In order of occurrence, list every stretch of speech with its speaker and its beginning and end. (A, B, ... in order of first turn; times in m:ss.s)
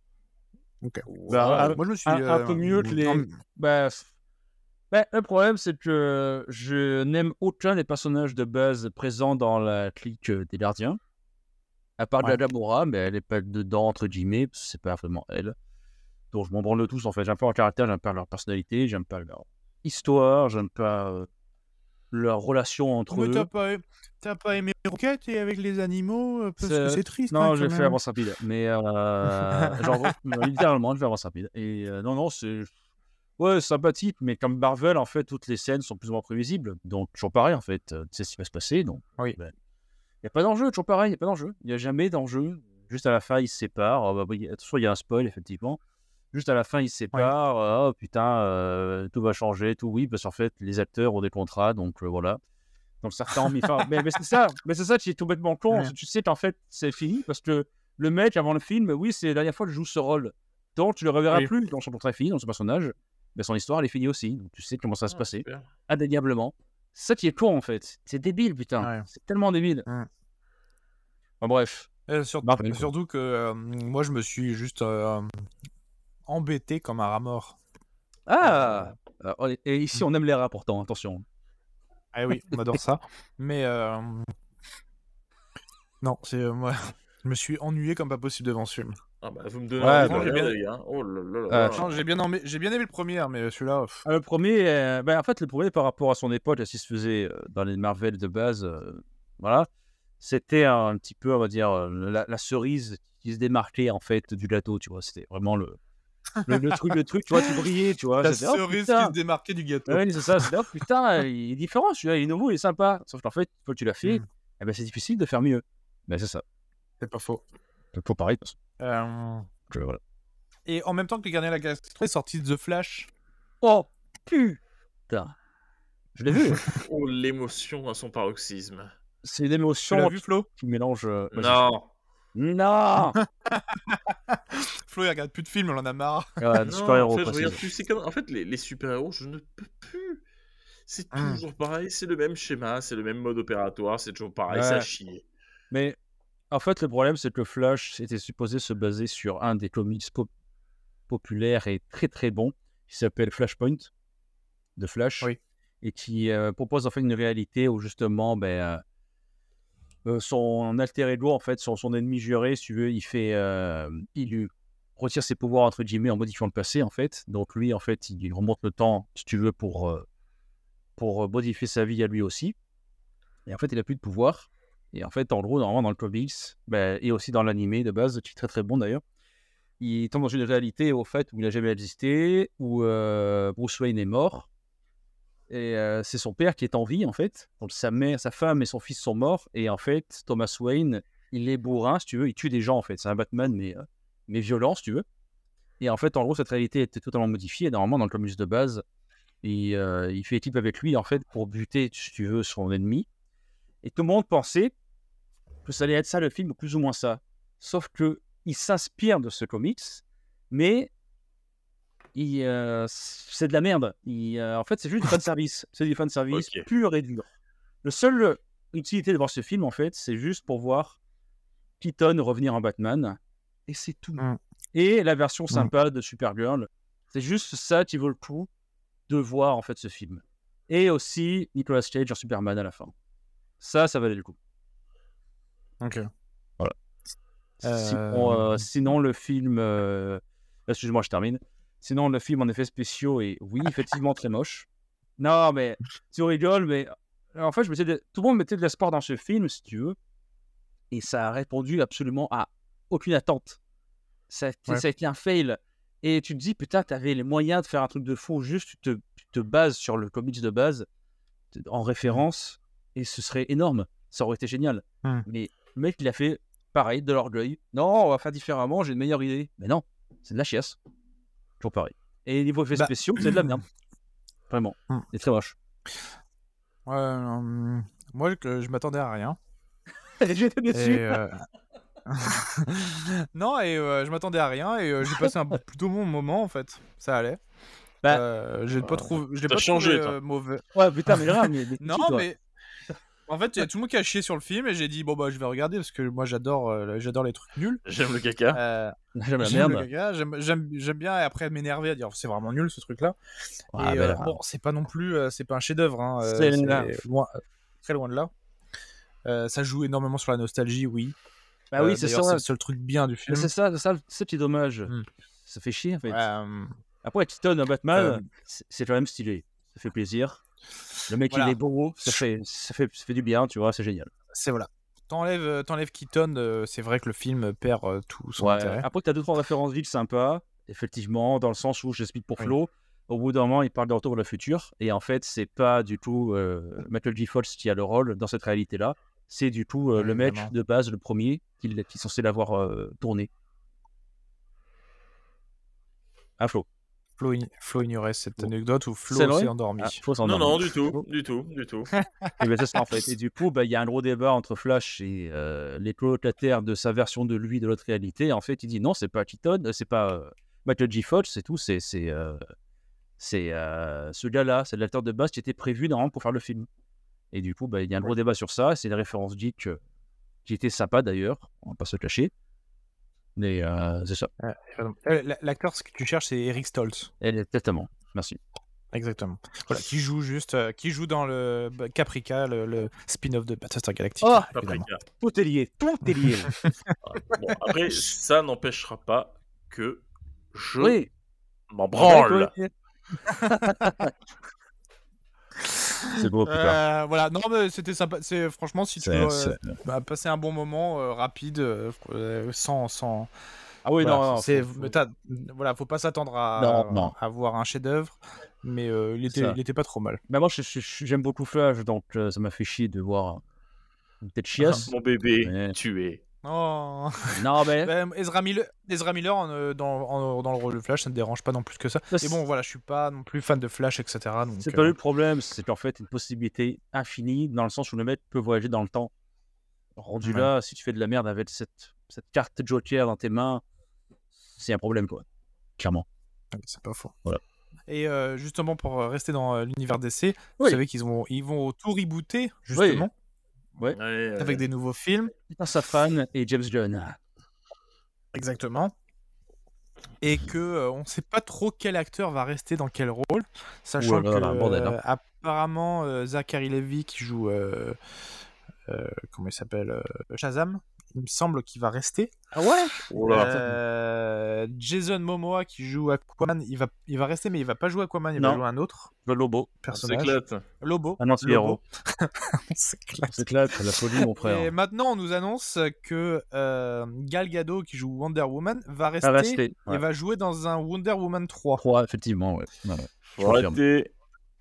0:00.8-0:03.3 A
0:01.1-0:01.8 B
0:01.3-0:04.1 C
0:04.9-0:11.0 C
0:12.0-0:15.6 C
0:16.3-0:21.3 C
0:22.1-0:23.5 C
0:23.1-0:28.0 A
0:26.6-0:32.7 C
0:29.5-0:30.1 A
0:33.4-0:39.5 C
0:40.2-0:45.8 C
0:46.3-0:52.4 C
0:53.0-1:09.9 C
1:05.1-1:05.7 B
1:08.8-1:09.0 A
1:11.4-1:11.9 C
1:12.1-1:15.3 A
1:12.4-1:12.9 C
1:16.3-1:17.6 A
1:18.3-1:21.2 C
1:18.4-1:18.9 A
1:22.1-1:24.3 A
1:26.0-1:29.0 A
1:29.2-1:32.0 B
1:29.8-1:30.5 C
1:29.9-1:30.5 A
1:31.5-1:31.8 C
1:31.6-1:34.0 A
1:34.0-1:39.7 C
1:40.2-1:45.8 C
1:46.4-1:49.1 C
1:48.2-1:50.5 A
1:49.9-1:56.4 C
1:57.0-1:57.4 A
1:57.9-1:58.5 C
1:58.8-1:59.5 A
1:59.7-2:00.0 C
2:00.6-2:03.1 A
2:03.6-2:05.3 C
2:06.1-2:06.7 C
2:06.7-2:08.9 B
2:09.2-2:11.6 C
2:09.9-2:10.5 A
2:11.3-2:11.9 B
2:12.3-2:13.2 C
2:13.5-2:16.3 A
2:16.4-2:17.6 C
2:16.6-2:20.2 B
2:20.9-2:25.2 B
2:21.1-2:21.4 A
2:24.5-2:24.8 C
2:25.7-2:26.0 C
2:26.5-2:30.3 C
2:31.1-2:33.9 C
2:34.8-2:35.3 C
2:35.8-2:38.8 C
2:40.0-2:50.1 C
2:51.0-2:52.5 C
2:53.4-2:59.0 C
2:59.8-3:04.5 C
3:05.5-3:15.0 C
3:15.8-3:18.8 C
3:19.4-3:23.1 C
3:23.8-3:24.7 C
3:25.6-3:30.9 C
3:32.1-3:37.2 C
3:36.3-3:36.6 B
3:37.8-3:41.0 C
3:41.8-3:48.5 C
3:49.1-3:52.9 C
3:53.6-3:54.4 C
3:55.8-3:56.1 A
3:57.6-4:04.7 C
3:57.6-3:58.6 A
4:05.2-4:10.0 C
4:10.9-4:13.6 C
4:14.3-4:20.8 C
4:21.5-4:30.8 C
4:31.6-4:33.6 C
4:32.7-4:33.6 A
4:34.5-4:35.6 C
4:36.9-4:39.4 A
4:40.2-4:41.2 C
4:40.7-4:41.4 A
4:42.0-4:47.4 A
4:48.1-4:52.4 A
4:49.4-4:50.2 B
4:50.7-4:52.3 C
4:53.3-4:57.8 A
4:57.8-4:58.6 B
4:58.5-5:03.2 A
4:59.1-4:59.9 C
5:03.7-5:04.4 C
5:03.7-5:08.3 A
5:06.2-5:07.0 C
5:09.2-5:11.2 A
5:11.7-5:12.4 C
5:11.8-5:13.5 A
5:13.3-5:14.9 C
5:15.4-5:16.2 C
5:16.1-5:16.7 A
5:17.0-5:20.4 C
5:17.9-5:18.2 A
5:21.1-5:24.1 C
5:21.3-5:22.2 A
5:24.3-5:28.8 A
5:28.4-5:43.3 C
5:40.0-5:40.5 A
5:46.4-5:46.6 C
5:47.2-5:50.0 A
5:49.1-5:51.0 C
5:50.2-5:51.9 B
5:51.9-5:52.3 A
5:52.4-6:02.4 C
6:03.2-6:06.7 C
6:07.3-6:09.8 C
6:10.4-6:12.3 C
6:13.4-6:14.3 C
6:14.4-6:17.1 A
6:17.2-6:18.4 C
6:18.9-6:24.8 A
6:24.2-6:24.5 C
6:24.5-6:25.0 B
6:25.2-6:26.6 C
6:26.2-6:26.7 A
6:27.1-6:31.0 B
6:30.8-6:31.1 C
6:31.7-6:32.5 B
6:32.0-6:32.7 C
6:33.3-6:34.1 C
6:35.8-6:43.3 A
6:36.2-6:36.8 C
6:39.0-6:39.8 C
6:43.8-6:44.9 C
6:44.0-6:50.2 A
6:46.6-6:47.1 C
6:49.3-6:49.6 C
6:50.3-6:53.4 C
6:54.2-6:55.8 C
6:54.6-6:54.8 A
6:54.9-6:56.2 B
6:56.4-7:04.9 A
6:57.3-6:57.9 C
7:02.1-7:02.4 C
7:04.6-7:09.1 C
7:10.0-7:13.6 C
7:10.2-7:10.5 A
7:14.6-7:15.2 C
7:15.8-7:16.0 C
7:16.5-7:17.1 A
7:17.9-7:23.1 A
7:22.7-7:23.1 C
7:23.9-7:24.6 B
7:24.4-7:25.3 A
7:25.5-7:27.2 C
7:28.3-7:28.9 A
7:30.2-7:38.0 A
7:34.0-7:35.0 C
7:38.9-7:42.5 A
7:42.5-7:43.8 C
7:43.1-7:43.6 B
7:43.1-7:49.1 A
7:48.4-7:48.6 C
7:49.2-7:49.7 C
7:49.8-7:53.5 A
7:49.9-7:50.6 B
7:51.2-7:51.8 C
7:53.3-7:54.7 C
7:54.2-8:01.8 A
7:59.2-8:00.0 C
8:01.8-8:03.8 C
8:03.4-8:04.1 B